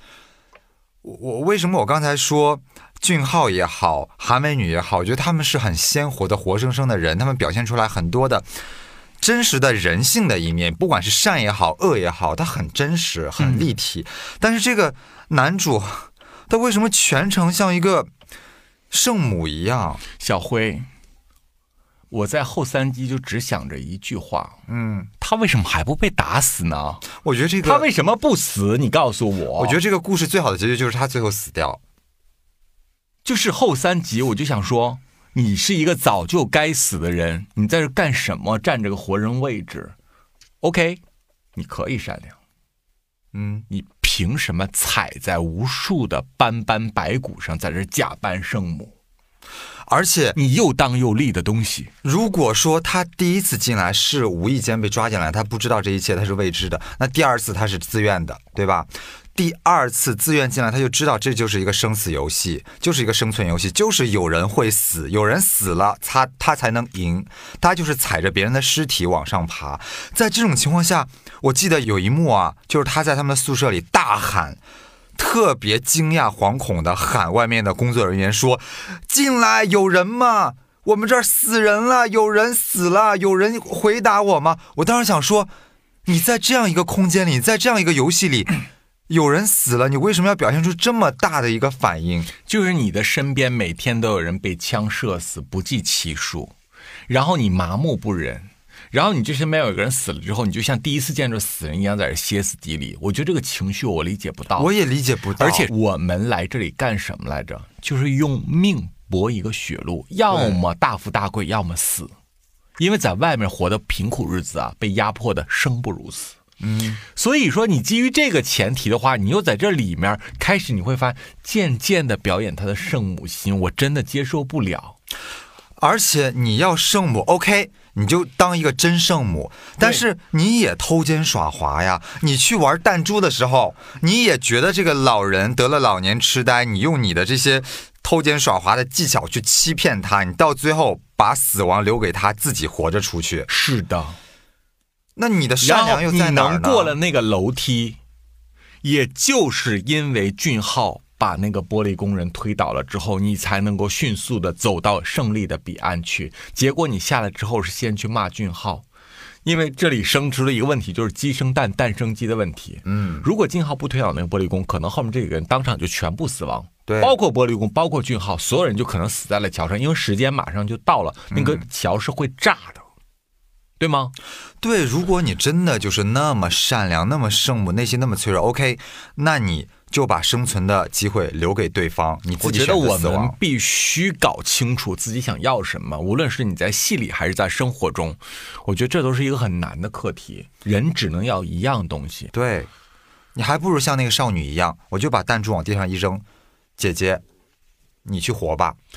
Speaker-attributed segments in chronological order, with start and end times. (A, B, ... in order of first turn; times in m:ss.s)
0:01.0-0:08.5 A
0:09.2-0:18.1 A
0:13.4-0:13.7 B
0:18.9-0:20.0 A
0:20.2-0:20.9 B
0:22.1-0:24.6 B
0:24.7-0:25.1 A
0:25.2-0:27.0 B
0:27.1-0:27.9 A
0:27.6-0:29.8 B
0:29.6-0:31.8 A
0:33.2-0:40.0 B
0:40.6-0:41.0 B
0:41.6-0:42.4 B
0:43.3-0:43.7 A
0:43.7-0:49.0 B
0:49.9-0:50.4 A
0:50.4-0:51.9 B
0:52.0-1:14.6 A
1:15.2-1:25.5 A
1:26.1-1:32.3 A
1:32.5-1:36.5 B
1:37.1-1:44.7 B
1:44.6-1:45.7 A
1:45.4-1:52.1 B
1:50.3-1:50.6 A
1:52.8-1:56.4 B
1:56.6-1:57.0 A
1:57.1-2:05.0 B
2:05.8-2:23.5 A
2:23.5-2:24.2 B
2:25.2-2:27.0 A
2:25.6-2:28.0 B
2:28.8-2:38.8 B
2:39.4-2:52.8 B
2:42.8-2:43.3 A
2:46.9-2:47.2 A
2:51.3-2:51.6 A
2:53.8-2:54.1 B
2:54.6-3:03.4 A
3:02.4-3:12.3 B
3:12.3-3:12.7 A
3:13.4-3:16.2 A
3:16.8-3:17.2 A
3:18.0-3:18.8 A